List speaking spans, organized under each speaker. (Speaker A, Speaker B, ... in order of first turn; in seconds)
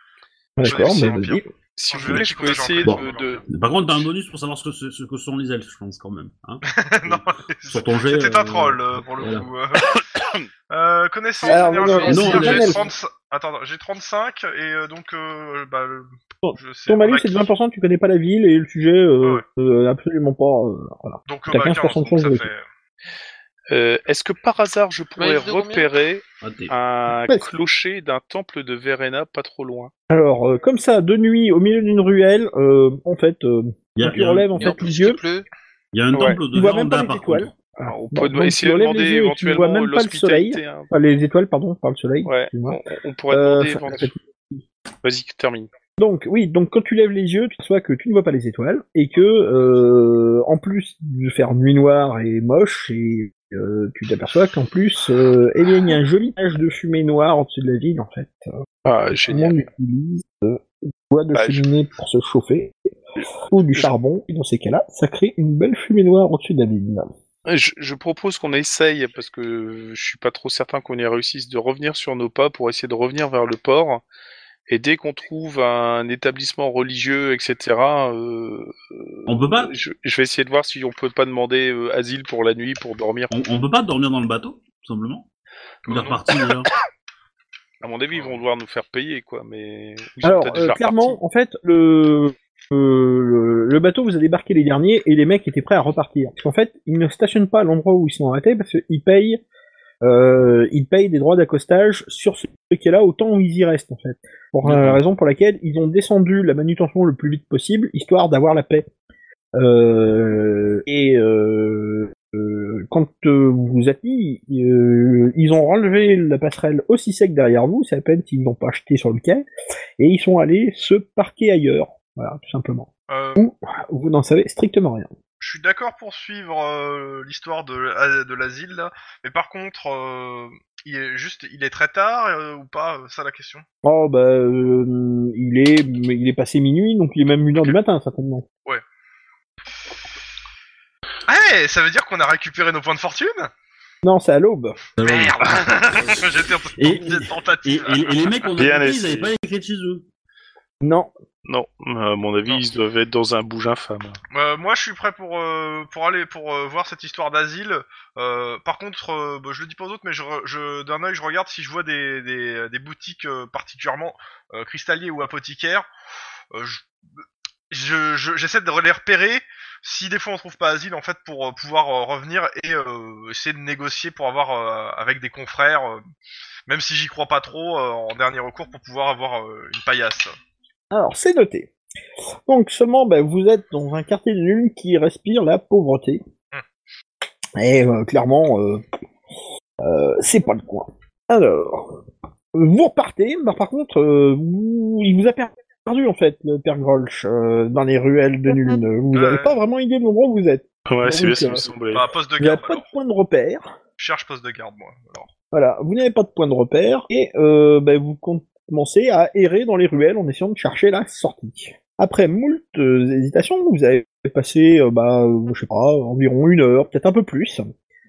Speaker A: 0.6-1.4, 11.4-12.8, 16.4-22.5, 30.1-35.2, 36.5-44.6, 46.0-58.5, 59.3-62.8, 63.5-67.1, 90.2-99.4, 100.0-108.9, 109.6-119.5, 120.0-125.1, 133.8-138.4, 144.0-144.8, 150.8-151.1, 180.9-181.7, 182.5-186.2, 187.6-188.8, 189.8-192.0, 192.5-201.7, 202.4-203.7, 205.5-217.7
Speaker B: 0.6-3.4, 6.7-9.9, 10.7-17.5, 21.3-22.6, 85.8-86.2, 123.1-123.5, 125.4-133.6, 141.3-143.5, 145.0-148.4, 154.3-165.9, 166.5-166.9, 167.7-176.0, 176.7-180.3, 199.1-199.6, 201.9-202.9, 204.0-205.3
Speaker C: 0.6-1.2, 1.7-3.4, 9.9-10.4, 23.7-29.9, 36.1-36.4, 37.8-40.9, 42.2-44.1, 45.0-45.7, 58.8-59.6, 61.3-61.6, 67.5-74.0, 74.7-83.3, 87.8-91.2, 104.6-105.0, 148.6-149.3, 151.4-154.2, 200.9-202.0
Speaker D: 2.8-9.5, 12.1-12.8, 26.4-26.7, 34.0-34.7, 35.9-37.5, 79.3-79.7, 83.3-85.3, 85.9-86.7, 145.0-150.0
Speaker E: 11.4-12.9, 25.2-25.9, 34.5-35.5